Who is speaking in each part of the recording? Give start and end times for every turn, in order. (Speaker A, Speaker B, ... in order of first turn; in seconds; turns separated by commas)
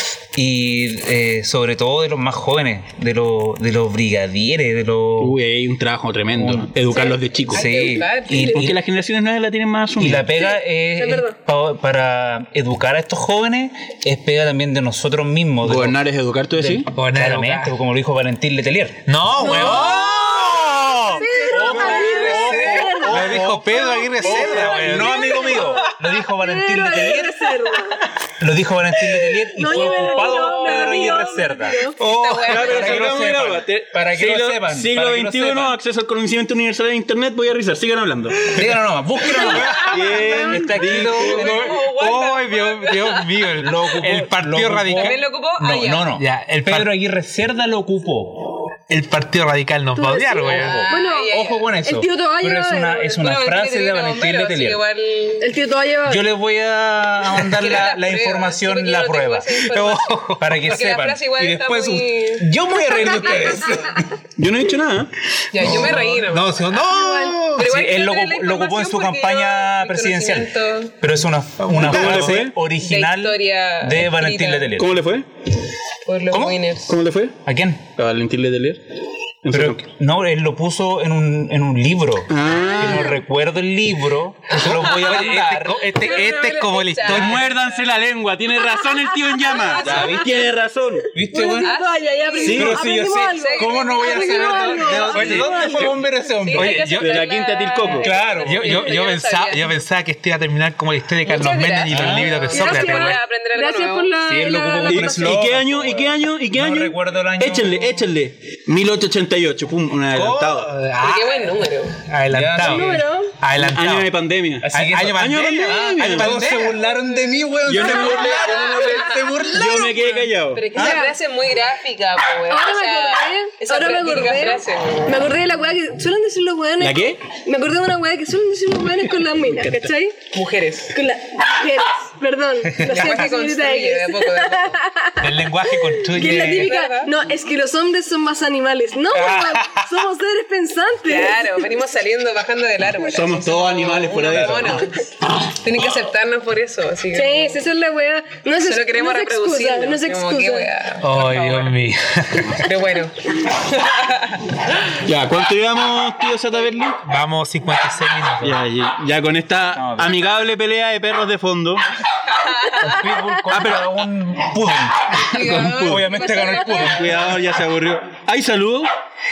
Speaker A: 0.3-5.4, Speaker B: 5.2-7.7, Speaker A: 6.4-6.7, Speaker C: 6.9-8.6, Speaker A: 7.5-8.8, Speaker B: 8.3-10.3, Speaker A: 10.0-16.0, Speaker D: 10.4-11.3, Speaker B: 15.6-16.9, Speaker A: 16.6-19.0, Speaker E: 16.8-17.8, Speaker E: 19.1-25.3, Speaker D: 19.4-20.4, Speaker A: 19.5-23.6, Speaker D: 21.1-28.0, Speaker B: 23.1-23.6, Speaker A: 24.2-31.8, Speaker D: 29.5-32.0, Speaker C: 29.7-31.2, Speaker E: 32.0-32.7, Speaker C: 32.0-33.1, Speaker B: 32.4-38.7, Speaker A: 32.5-35.8, Speaker A: 38.4-41.8, Speaker C: 39.2-43.6, Speaker E: 39.4-40.0, Speaker B: 39.9-41.4, Speaker E: 41.2-45.2, Speaker A: 43.6-48.7, Speaker C: 44.9-46.1, Speaker E: 46.1-46.9, Speaker E: 48.9-50.8, Speaker D: 50.0-53.2, Speaker A: 50.4-54.8, Speaker C: 50.4-51.6, Speaker C: 53.2-55.5, Speaker D: 55.4-56.2, Speaker A: 56.1-59.6, Speaker C: 57.3-62.5, Speaker E: 59.6-60.6, Speaker A: 60.4-64.1, Speaker C: 63.0-63.8, Speaker B: 64.4-65.1, Speaker C: 65.5-66.9, Speaker E: 65.6-67.7, Speaker A: 65.7-66.1, Speaker D: 66.9-67.4, Speaker C: 67.5-70.9, Speaker A: 67.6-75.0, Speaker E: 71.6-72.4, Speaker B: 71.7-72.5, Speaker C: 72.7-74.7, Speaker B: 74.7-75.2, Speaker C: 76.0-77.0, Speaker A: 76.3-76.6, Speaker B: 76.8-78.8, Speaker A: 77.4-77.8, Speaker B: 79.4-79.8, Speaker A: 79.5-85.9, Speaker B: 82.3-83.2, Speaker D: 82.5-83.2, Speaker C: 84.5-85.3, Speaker E: 84.5-87.5, Speaker C: 85.9-87.5, Speaker B: 87.0-91.1, Speaker D: 88.9-90.1, Speaker C: 89.5-90.3, Speaker A: 89.8-90.4, Speaker A: 91.1-91.8, Speaker D: 91.2-95.9, Speaker C: 91.3-99.7, Speaker A: 92.4-96.8, Speaker B: 92.4-92.9, Speaker E: 95.1-95.7, Speaker E: 96.5-97.3, Speaker B: 96.9-98.1, Speaker A: 98.0-98.9, Speaker E: 98.4-103.2, Speaker C: 101.2-104.1, Speaker A: 101.9-102.5, Speaker D: 102.5-105.4, Speaker A: 104.2-108.0, Speaker B: 104.8-110.8, Speaker E: 110.1-114.1, Speaker C: 111.0-112.0, Speaker A: 112.3-113.0, Speaker D: 112.6-113.3, Speaker B: 113.6-116.4, Speaker A: 114.6-119.8, Speaker E: 114.7-116.8, Speaker B: 117.6-120.7, Speaker D: 117.7-120.1, Speaker C: 117.8-125.3, Speaker A: 120.7-121.0, Speaker D: 120.7-121.2, Speaker D: 122.5-130.2, Speaker B: 126.8-127.2, Speaker B: 129.3-129.9, Speaker C: 130.3-130.9, Speaker D: 130.9-141.7, Speaker E: 132.7-133.3, Speaker C: 132.8-134.8, Speaker E: 135.2-136.8, Speaker C: 136.1-137.1, Speaker E: 139.1-139.9, Speaker C: 141.1-147.6, Speaker B: 143.0-144.9, Speaker A: 144.2-144.7, Speaker D: 147.1-150.7, Speaker C: 148.6-151.8, Speaker E: 151.0-152.7, Speaker C: 152.4-154.6, Speaker B: 155.0-157.0, Speaker E: 157.0-158.6, Speaker B: 158.4-161.8, Speaker A: 159.7-160.2, Speaker C: 162.3-163.0, Speaker A: 162.8-167.5, Speaker B: 163.5-163.9, Speaker C: 165.2-167.2, Speaker B: 165.3-166.1, Speaker B: 166.7-168.9